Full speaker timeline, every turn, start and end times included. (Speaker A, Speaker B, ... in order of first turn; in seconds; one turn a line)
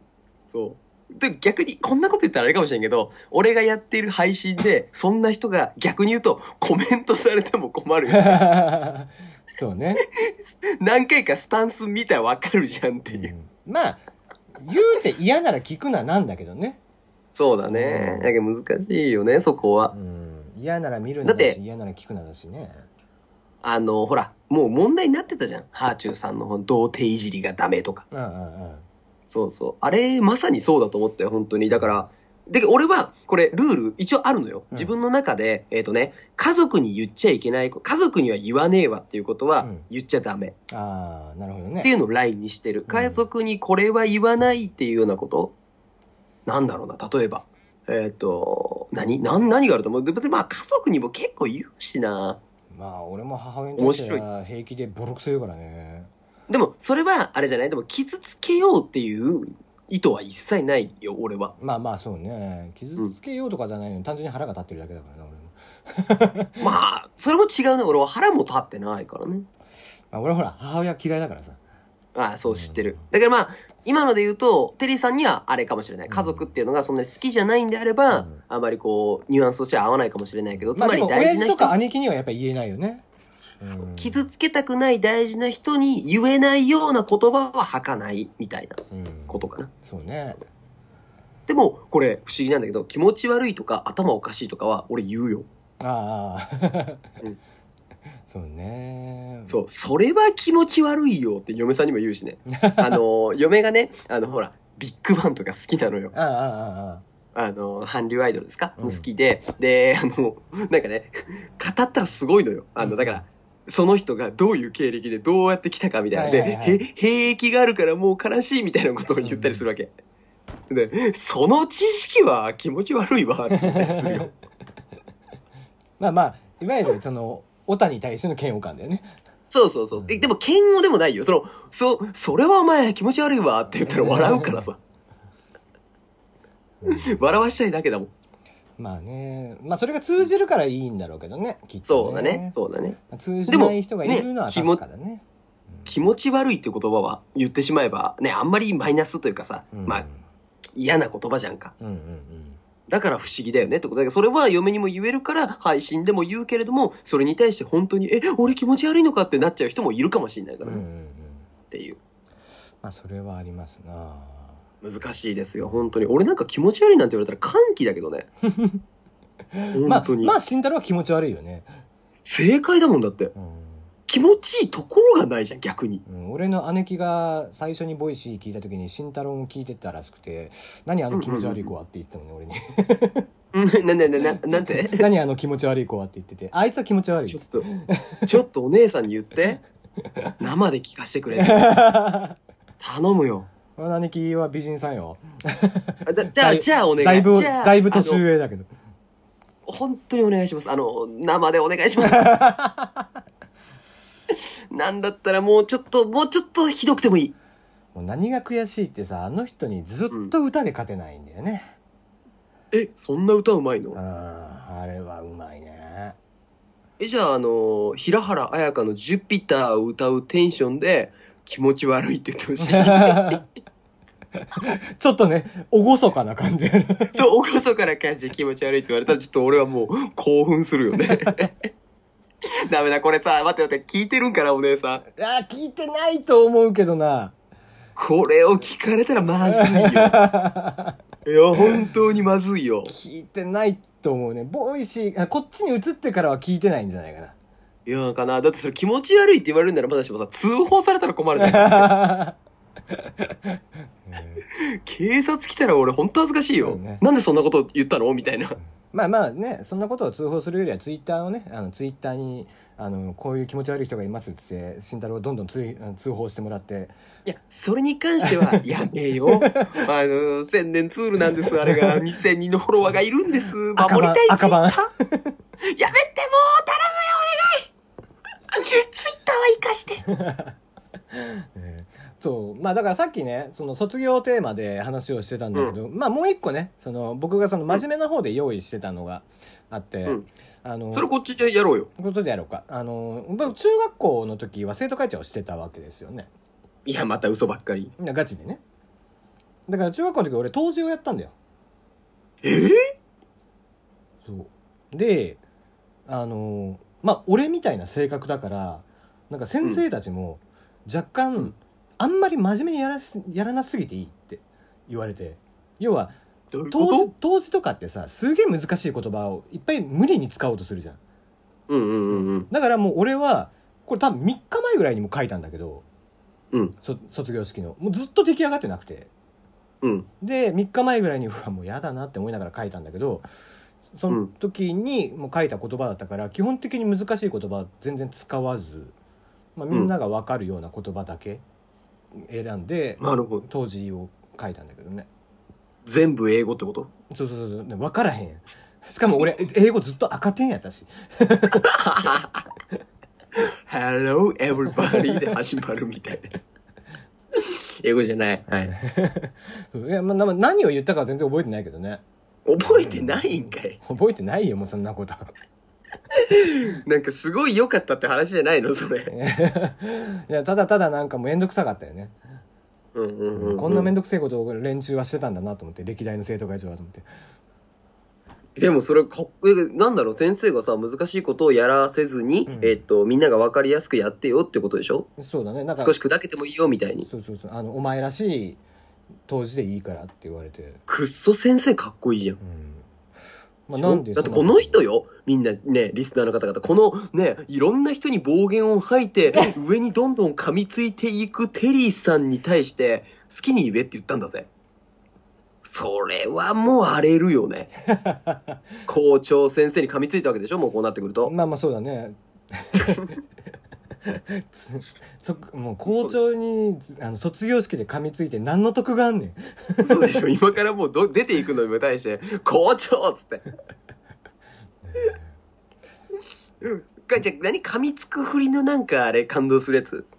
Speaker A: 0.5-8.4
Speaker B: 8.1-10.0
Speaker A: 10.1-13.3
Speaker B: 13.1-14.1
Speaker B: 14.6-16.8
Speaker A: 17.4-19.9
Speaker B: 17.7-18.3
Speaker B: 19.9-22.8
Speaker A: 21.2-21.6
Speaker A: 23.6-28.1
Speaker B: 28.1-28.9
Speaker A: 29.3-40.6
Speaker B: 31.7-32.0
Speaker B: 39.6-39.9
Speaker B: 40.7-41.9
Speaker A: 41.8-45.5
Speaker B: 42.9-43.3
Speaker A: 46.5-52.4
Speaker B: 52.7-56.1
Speaker A: 53.8-54.2
Speaker A: 56.5-61.6
Speaker B: 61.6-66.7
Speaker A: 66.6-69.5
Speaker B: 70.1-71.6
Speaker A: 72.2-81.8
Speaker B: 72.5-73.0
Speaker B: 76.1-76.5
Speaker B: 78.1-78.4
Speaker B: 80.6-83.0
Speaker B: 83.6-84.3
Speaker A: 83.8-89.7
Speaker B: 88.9-90.4
Speaker A: 91.5-95.5
Speaker B: 95.8-97.0
Speaker B: 98.3-99.6
Speaker A: 99.5-106.2
Speaker B: 102.5-103.0
Speaker B: 106.1-107.0
Speaker A: 107.3-119.9
Speaker B: 108.8-109.1
Speaker B: 112.8-113.2
Speaker B: 116.1-116.9
Speaker B: 119.2-119.6
Speaker A: 120.7-124.3
Speaker B: 123.5-124.3
Speaker B: 126.0-129.1
Speaker A: 129.5-134.8
Speaker B: 130.0-130.3
Speaker B: 133.9-134.6
Speaker B: 136.8-137.4
Speaker A: 136.8-138.1
Speaker B: 138.8-145.2
Speaker A: 141.8-144.8
Speaker A: 145.8-150.1
Speaker B: 149.7-150.2
Speaker A: 150.8-151.7
Speaker B: 151.8-152.6
Speaker A: 152.9-160.8
Speaker B: 160.6-161.5
Speaker A: 161.7-162.0
Speaker B: 162.8-164.6
Speaker A: 164.8-168.3
Speaker B: 168.4-168.8
Speaker B: 169.5-171.7
Speaker A: 169.8-170.3
Speaker A: 172.2-173.3
Speaker B: 173.3-173.8
Speaker A: 174.1-176.0
Speaker B: 176.1-183.3
Speaker A: 181.1-181.7
Speaker A: 183.5-185.1
Speaker B: 184.3-188.4
Speaker A: 187.3-187.7
Speaker A: 188.3-189.6
Speaker A: 190.4-191.7
Speaker B: 191.4-192.4
Speaker A: 192.8-193.5
Speaker B: 193.7-198.7
Speaker A: 196.1-198.2
Speaker A: 199.7-202.3
Speaker B: 202.0-203.1
Speaker A: 204.7-207.3
Speaker B: 207.9-211.8
Speaker A: 212.7-214.0
Speaker B: 213.9-216.2
Speaker A: 217.0-223.4
Speaker B: 222.6-223.4
Speaker B: 224.6-227.2
Speaker A: 227.1-231.7
Speaker B: 231.1-231.5
Speaker A: 232.5-235.0
Speaker B: 235.0-237.3
Speaker A: 238.0-240.2
Speaker B: 239.4-241.0
Speaker A: 241.2-242.9
Speaker B: 242.9-247.3
Speaker A: 247.9-251.9
Speaker B: 251.4-252.4
Speaker B: 252.9-253.3
Speaker B: 254.1-254.4
Speaker A: 254.5-258.6
Speaker B: 256.6-257.0
Speaker B: 258.9-266.9
Speaker A: 267.3-274.9
Speaker B: 268.2-268.6
Speaker B: 269.3-269.9
Speaker B: 271.4-272.1
Speaker B: 273.8-275.4
Speaker A: 275.6-277.7
Speaker A: 278.5-280.0
Speaker B: 280.1-280.5
Speaker B: 281.1-291.1
Speaker A: 290.9-291.9
Speaker B: 292.0-296.3
Speaker A: 296.9-297.9
Speaker B: 298.0-298.6
Speaker B: 299.7-301.3
Speaker A: 302.4-302.9
Speaker B: 304.2-305.4
Speaker B: 306.1-321.0
Speaker A: 316.5-317.1
Speaker A: 321.7-322.5
Speaker B: 322.1-325.9
Speaker B: 326.8-329.1
Speaker A: 329.8-330.1
Speaker B: 330.2-333.3
Speaker B: 333.9-338.9
Speaker B: 339.6-341.4
Speaker B: 342.2-345.1
Speaker A: 343.0-343.5
Speaker A: 345.9-346.9
Speaker B: 347.1-352.1
Speaker A: 351.8-352.4
Speaker A: 353.4-356.4
Speaker A: 357.3-358.7
Speaker B: 358.5-362.0
Speaker A: 362.5-363.8
Speaker B: 362.6-365.2
Speaker A: 366.1-369.1
Speaker B: 369.1-372.1
Speaker A: 372.9-373.9
Speaker B: 373.3-377.1
Speaker A: 378.6-385.1
Speaker B: 382.5-382.8
Speaker B: 385.2-386.0
Speaker A: 385.8-387.1
Speaker B: 387.1-388.6
Speaker B: 389.3-390.8
Speaker A: 390.9-392.4
Speaker B: 392.4-392.9
Speaker B: 393.7-394.8
Speaker A: 393.7-404.5
Speaker A: 405.6-407.7
Speaker B: 407.9-408.6
Speaker A: 408.9-411.3
Speaker B: 411.2-413.1
Speaker B: 414.1-420.2
Speaker A: 419.8-423.5
Speaker B: 424.9-425.2
Speaker A: 426.6-430.1